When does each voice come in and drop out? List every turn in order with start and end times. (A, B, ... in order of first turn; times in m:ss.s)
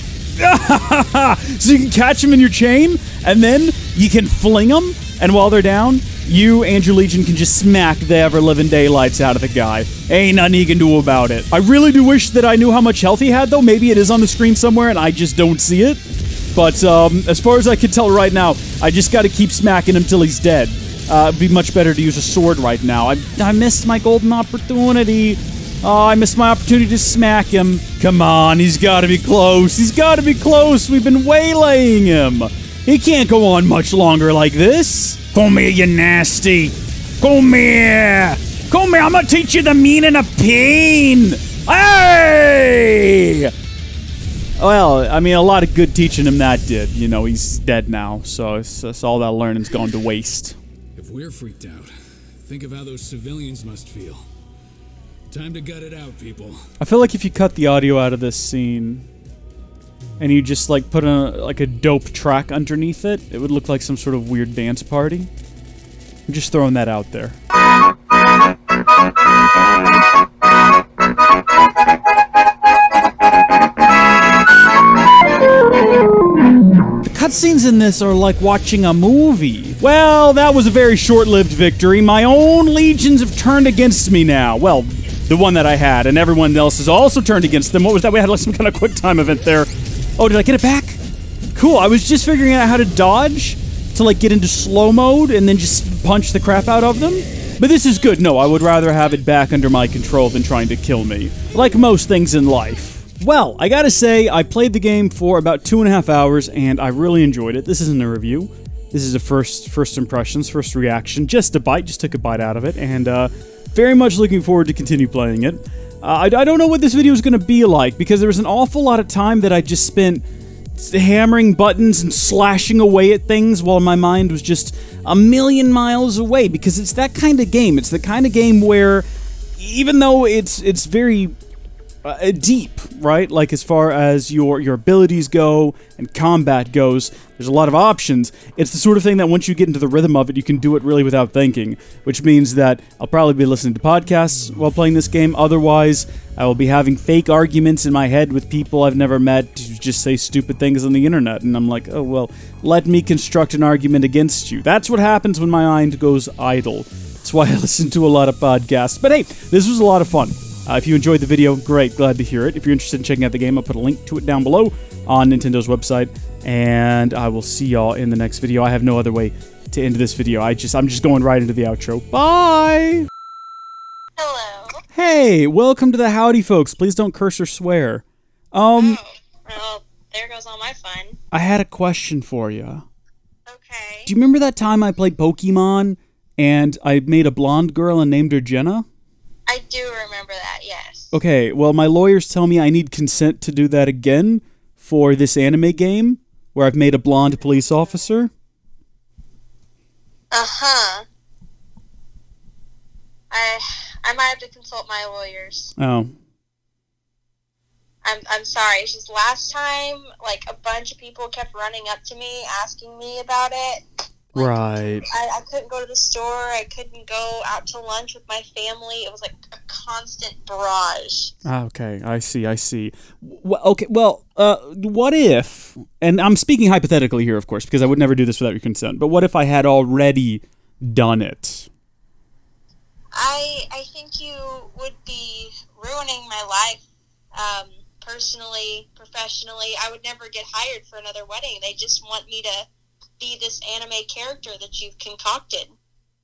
0:00.4-0:16.0 A
0:16.5-0:43.5 A
0:44.6-0:50.6 A
0:51.0-0:51.9 B
0:52.4-0:54.3 B
0:55.3-0:56.7 B
0:56.8-0:59.0 A
1:00.2-1:05.3 A
1:06.3-1:07.4 A
1:17.0-1:31.0 A
1:31.5-2:00.2 A
2:00.8-2:09.0 A
2:09.6-2:11.3 A
2:12.0-2:53.1 A
2:54.2-2:54.8 C
2:54.9-2:59.0 A
2:58.8-3:01.2 C
3:01.3-3:02.8 A
3:03.5-3:04.1 C
3:04.1-3:08.8 A
3:09.5-3:11.1 C
3:11.1-3:18.3 A
3:20.3-3:21.0 C
3:23.3-3:25.7 C
3:25.8-3:26.2 A
3:28.0-3:33.8 C
3:34.4-3:35.1 A
3:34.4-3:41.3 C
3:41.4-3:51.7 A
3:53.1-3:56.8 C
3:57.4-4:02.7 C
4:03.2-4:05.7 C